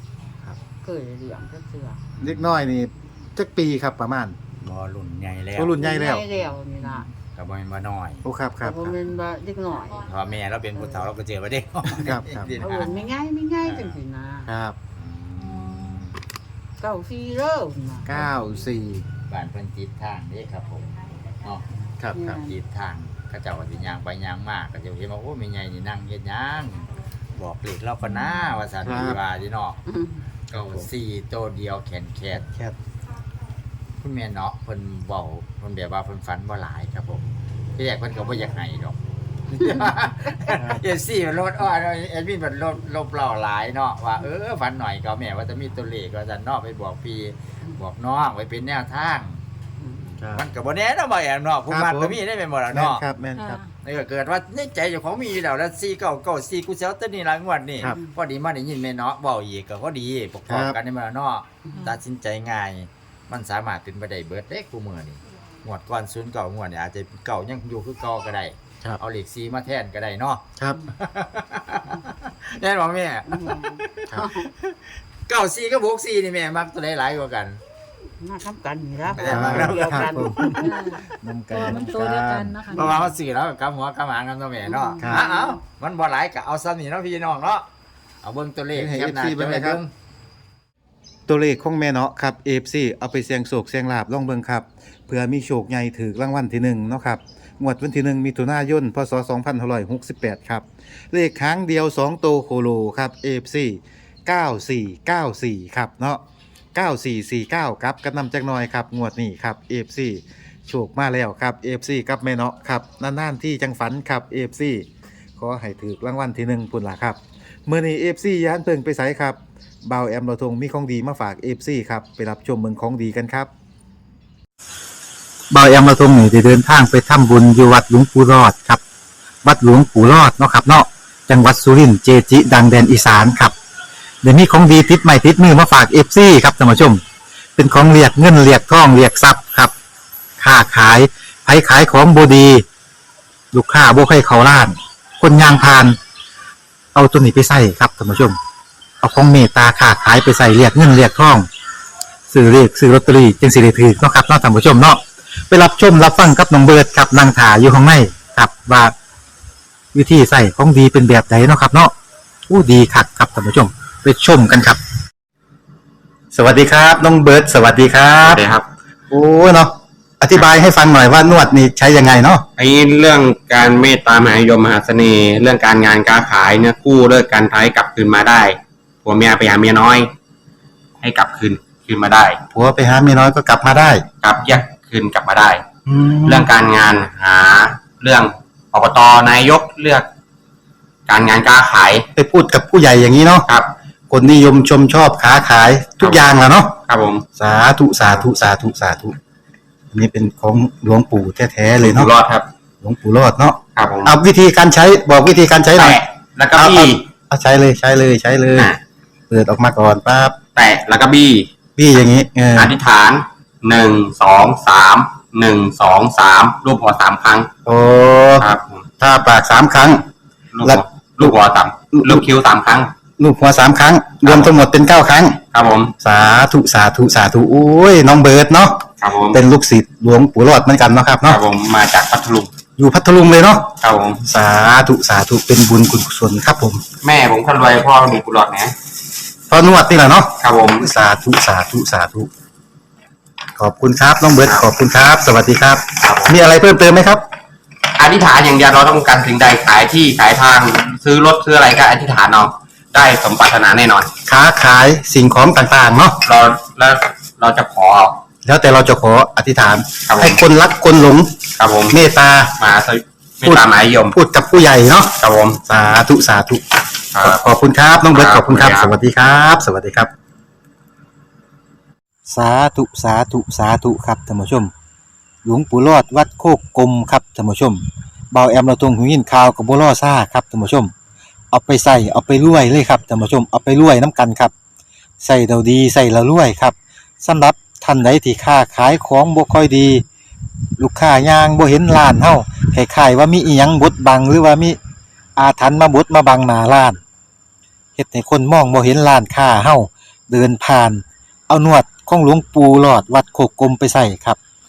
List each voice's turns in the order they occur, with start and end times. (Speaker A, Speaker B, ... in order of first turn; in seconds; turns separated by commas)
Speaker A: 0.8-2.0, Speaker B: 2.1-2.6, Speaker C: 2.2-4.3, Speaker B: 4.6-5.8, Speaker C: 5.5-6.2, Speaker A: 5.8-7.1, Speaker B: 6.3-8.2, Speaker C: 8.2-8.9, Speaker A: 8.6-10.0, Speaker B: 10.0-13.0, Speaker A: 10.7-11.1, Speaker C: 11.9-12.5, Speaker A: 12.6-14.5, Speaker B: 13.6-14.0, Speaker C: 14.4-14.8, Speaker B: 14.9-16.1, Speaker A: 16.8-18.2, Speaker C: 18.1-19.1, Speaker B: 19.2-21.6, Speaker C: 21.7-22.4, Speaker A: 22.1-22.6, Speaker B: 22.3-29.8, Speaker C: 28.8-29.2, Speaker A: 29.9-30.2, Speaker B: 30.5-32.5, Speaker C: 32.5-32.8, Speaker B: 34.0-39.0, Speaker B: 39.5-49.4, Speaker C: 40.5-40.8, Speaker B: 50.0-53.0, Speaker C: 50.2-50.4, Speaker C: 51.7-52.2, Speaker C: 52.7-53.6, Speaker D: 53.4-53.7, Speaker B: 53.8-77.6, Speaker C: 60.5-60.8, Speaker D: 61.7-62.0, Speaker A: 73.3-74.5, Speaker A: 78.2-80.7, Speaker B: 79.1-80.6, Speaker C: 79.2-82.6, Speaker D: 80.6-83.1, Speaker B: 82.7-87.7, Speaker A: 84.6-85.6, Speaker B: 88.2-89.9, Speaker C: 88.7-89.8, Speaker C: 91.3-106.2, Speaker C: 106.7-123.5, Speaker C: 125.5-128.8, Speaker C: 129.4-133.5, Speaker C: 134.2-137.0, Speaker C: 137.6-139.7, Speaker C: 140.4-142.6, Speaker C: 143.5-146.0, Speaker C: 146.9-148.4, Speaker C: 149.0-151.5, Speaker C: 152.3-158.9, Speaker C: 159.9-161.9, Speaker C: 162.5-164.8, Speaker C: 166.3-168.4, Speaker E: 168.2-168.7, Speaker C: 169.1-172.4, Speaker E: 172.6-180.1, Speaker E: 181.0-182.4, Speaker C: 182.5-184.1, Speaker E: 184.2-185.6, Speaker C: 185.8-186.5, Speaker E: 186.2-190.1, Speaker E: 191.1-192.1, Speaker C: 192.1-193.5, Speaker C: 194.1-196.8, Speaker E: 196.9-197.2, Speaker C: 197.3-199.2, Speaker C: 199.9-202.1, Speaker E: 201.8-202.5, Speaker C: 202.8-206.0, Speaker E: 203.8-204.2, Speaker E: 205.8-207.1, Speaker C: 206.5-208.7, Speaker C: 209.3-210.4, Speaker E: 210.5-211.5, Speaker C: 211.8-212.7, Speaker E: 212.6-217.5, Speaker C: 217.6-218.5, Speaker E: 218.4-218.9, Speaker C: 219.0-220.0, Speaker E: 220.5-222.9, Speaker C: 220.6-221.3, Speaker C: 221.9-222.2, Speaker C: 223.2-225.4, Speaker E: 224.2-224.6, Speaker E: 225.5-225.9, Speaker C: 226.0-231.4, Speaker E: 229.0-229.4, Speaker E: 231.2-232.5, Speaker C: 232.8-236.8, Speaker E: 233.8-234.2, Speaker E: 237.0-238.7, Speaker C: 239.5-242.3, Speaker E: 240.4-240.9, Speaker C: 243.6-247.2, Speaker E: 246.0-246.4, Speaker E: 248.0-254.1, Speaker C: 254.2-256.2, Speaker E: 256.2-258.2, Speaker C: 258.4-262.6, Speaker E: 260.1-260.4, Speaker E: 261.6-262.0, Speaker E: 262.6-264.1, Speaker C: 263.4-266.6, Speaker E: 265.2-265.6, Speaker E: 267.1-267.4, Speaker C: 267.2-270.1, Speaker E: 268.1-268.9, Speaker C: 272.3-274.7, Speaker C: 275.4-280.9, Speaker C: 281.5-284.5, Speaker C: 285.2-290.0, Speaker C: 290.8-294.8, Speaker C: 295.4-297.0, Speaker C: 297.9-304.4